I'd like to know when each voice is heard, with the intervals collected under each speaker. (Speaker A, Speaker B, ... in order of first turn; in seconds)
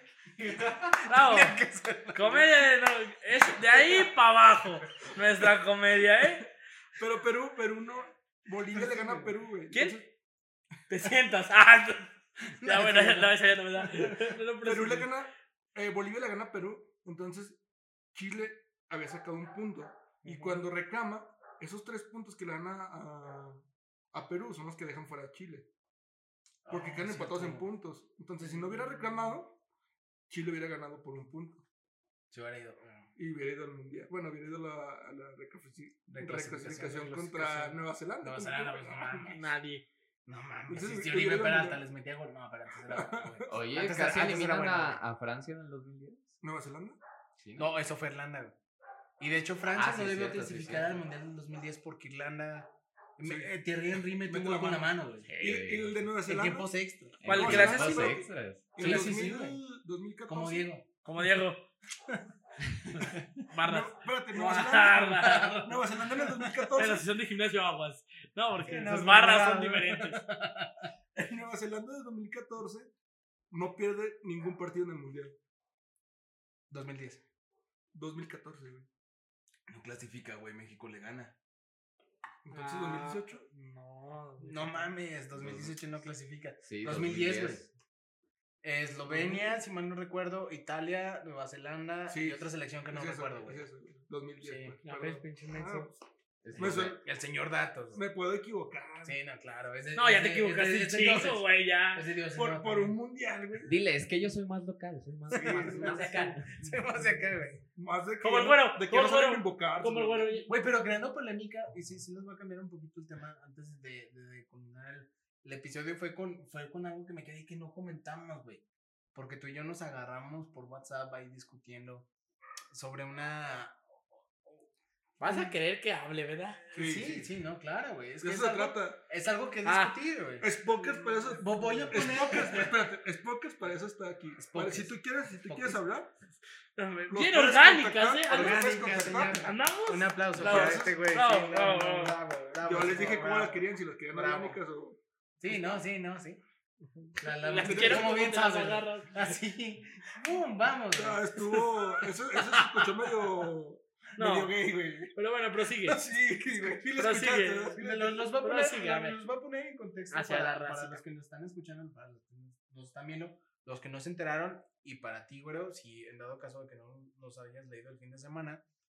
Speaker A: 0.4-2.7, 3.5-4.0, 8.7-9.4, 12.4-14.3, 26.6-27.7, 28.4-29.4, 32.3-33.1, 36.1-39.5, 40.3-45.0, 47.6-48.6, 49.2-55.3, 56.2-57.7, 58.8-59.6, 60.3-60.9, 63.0-63.2, 65.2-66.7, 68.5-70.9, 76.7-77.2, 79.7-81.3, 84.4-87.6, 88.6-93.7, 94.4-94.8, 96.6-98.0, 99.0-103.0, 105.3-107.6, 110.5-118.6, 119.1-122.1, 122.7-124.7, 125.2-125.6, 126.7-130.5, 131.3-132.7, 134.4-135.8, 138.3-144.6, 145.4-146.4, 147.2-151.6, 157.8-168.6
Speaker B: 1.1-1.6, 2.1-6.5, 9.7-10.0, 10.9-15.1, 20.3-20.6, 39.3-39.9, 57.3-58.2, 58.8-59.1, 61.0-61.6, 63.5-65.6, 66.8-70.2, 82.5-84.9, 94.8-96.0, 100.0-102.1, 108.2-110.5, 125.2-126.7, 129.7-130.0, 130.8-131.3, 136.8-138.6, 139.4-142.2, 147.4-149.4, 154.2-154.6, 155.1-156.0, 157.0-157.8, 158.4-159.2, 160.1-161.0
Speaker C: 7.0-10.1, 14.6-17.6, 18.1-25.7, 26.7-29.6, 30.3-31.6, 33.2-39.4, 40.7-41.8, 42.9-43.5, 46.4-47.0, 53.2-53.5, 54.2-56.7, 57.3-60.7, 63.6-67.1, 71.2-72.9, 73.5-75.3, 77.9-78.9, 82.5-83.4, 89.1-89.5, 92.1-95.9, 96.6-97.0, 97.9-99.2, 102.3-103.8, 105.3-106.0, 107.7-110.3, 126.7-127.3, 128.2-129.0, 130.4-136.1, 137.1-139.5, 140.4-141.0, 142.6-145.8, 146.8-148.3, 150.9-155.2, 155.8-158.2
Speaker D: 43.5-46.4, 47.4-47.8, 49.7-51.0, 55.3-56.1, 57.2-58.7, 85.4-85.8, 86.6-87.7, 96.4-97.0, 103.6-106.8